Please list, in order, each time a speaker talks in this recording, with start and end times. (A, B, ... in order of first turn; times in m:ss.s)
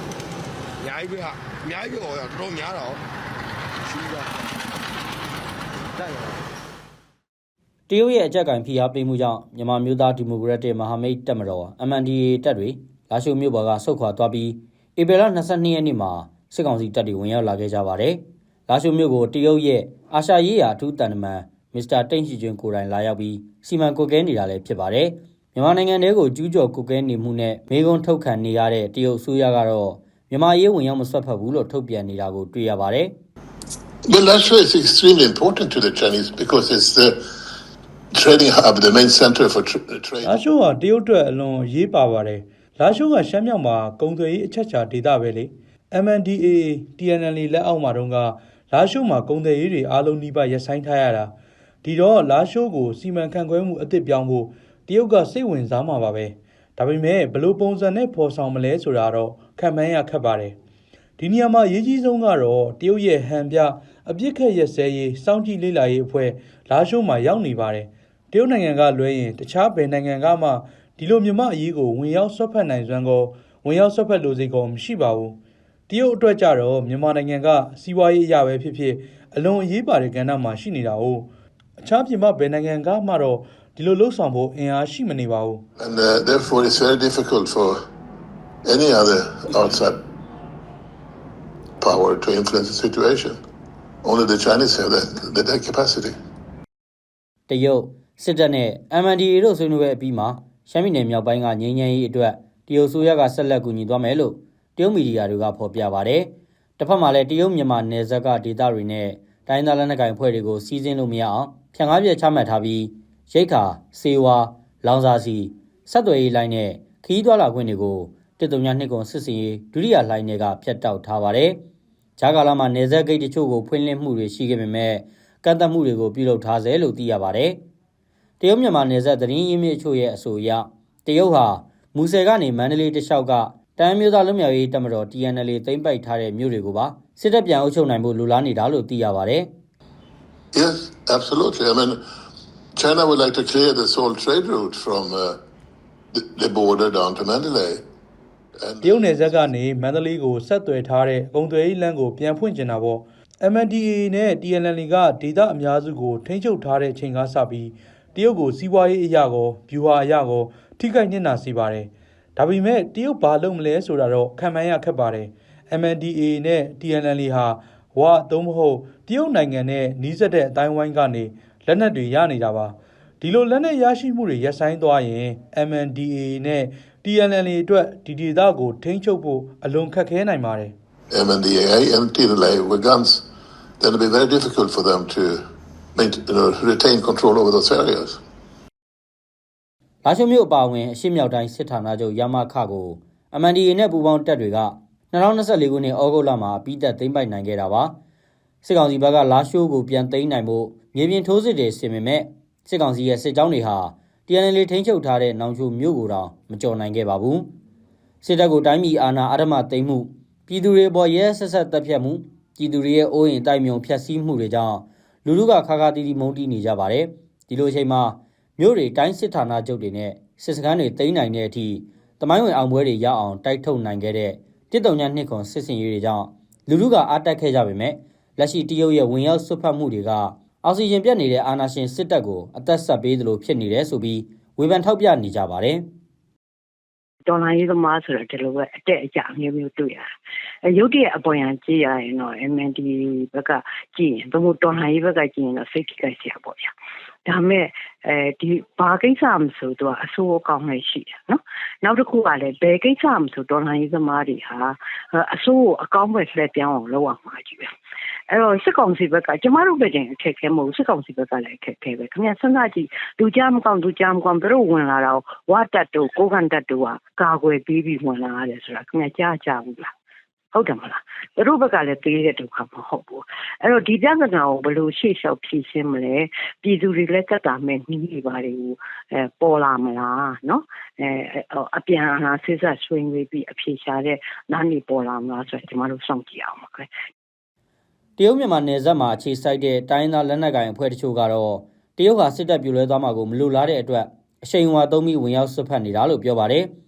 0:00.8-0:03.0 A
0:03.9-0:04.3 A
0:06.0-0:06.4 A
0:07.9-0:33.1 B
0:34.1-0:37.2 C
0:38.1-0:40.4 C
0:40.2-0:51.3 D
0:51.8-1:00.6 D
1:01.2-1:15.4 D
1:15.9-1:21.3 D
1:21.8-1:25.6 D
1:25.8-1:27.8 C
1:28.6-1:30.0 C
1:31.8-1:33.4 C
1:34.0-1:36.1 C
1:37.5-2:01.6 B
2:02.2-2:07.6 B
2:08.4-2:19.5 B
2:20.5-2:22.0 C
2:22.8-2:25.4 C
2:26.1-2:27.8 C
2:28.6-2:29.4 C
2:28.8-3:00.7 D
3:01.1-3:03.2 C
3:03.8-3:05.4 C
3:06.0-3:08.2 C
3:10.0-3:17.9 B
3:18.6-3:27.5 B
3:28.2-3:55.8 B
3:57.3-4:00.1 E
4:00.6-4:06.7 E
4:07.2-4:17.7 E
4:18.3-4:29.9 E
4:30.5-4:46.9 E
4:48.2-4:56.7 B